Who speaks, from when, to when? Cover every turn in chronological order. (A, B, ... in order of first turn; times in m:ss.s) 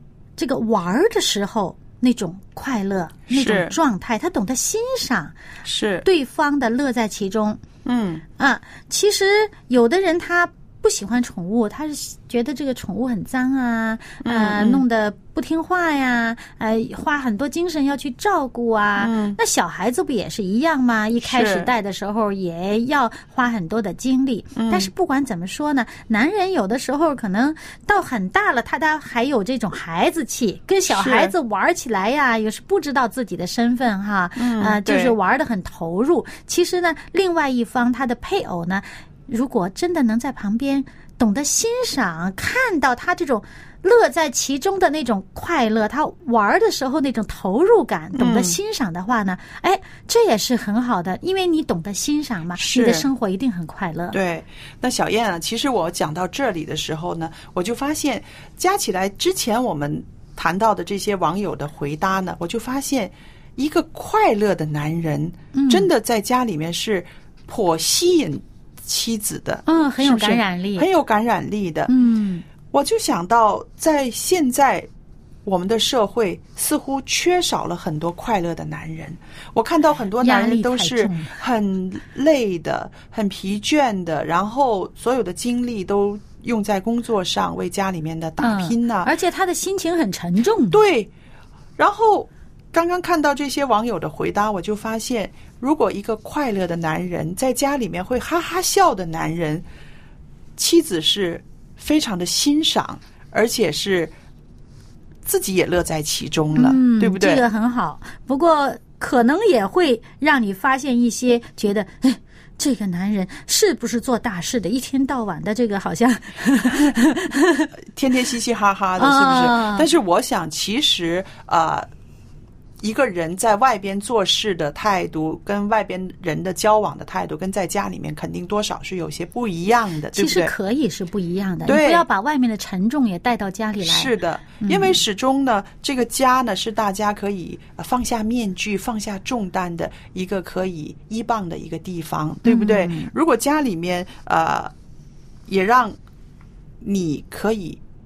0:00.4-0:05.4 A
0:03.3-0:03.8 B
0:05.6-0:06.1 B
0:06.0-0:07.6 A
0:07.8-0:08.2 B
0:08.4-0:54.2 A
0:14.2-0:14.8 B
0:19.0-0:19.4 B
0:21.2-0:21.7 B
0:24.6-0:24.9 B
0:30.9-0:31.3 B
0:34.4-0:35.2 B
0:48.2-0:48.6 B
0:52.6-0:53.1 B
0:54.1-1:11.9 B
1:05.5-1:05.9 A
1:09.7-1:10.9 A
1:11.9-1:12.4 A
1:12.7-1:14.9 B
1:15.4-1:29.1 B
1:20.2-1:21.4 A
1:28.4-1:30.8 A
1:30.7-1:31.1 B
1:31.8-1:39.6 B
1:40.6-1:44.1 B
1:45.3-1:47.4 B
1:46.6-1:57.7 A
1:57.9-2:01.9 B
1:59.0-1:59.9 A
2:02.8-2:10.5 B
2:10.2-2:15.0 A
2:11.6-2:12.1 B
2:13.8-2:24.7 B
2:22.4-2:23.1 A
2:25.5-2:26.0 B
2:26.8-2:27.8 B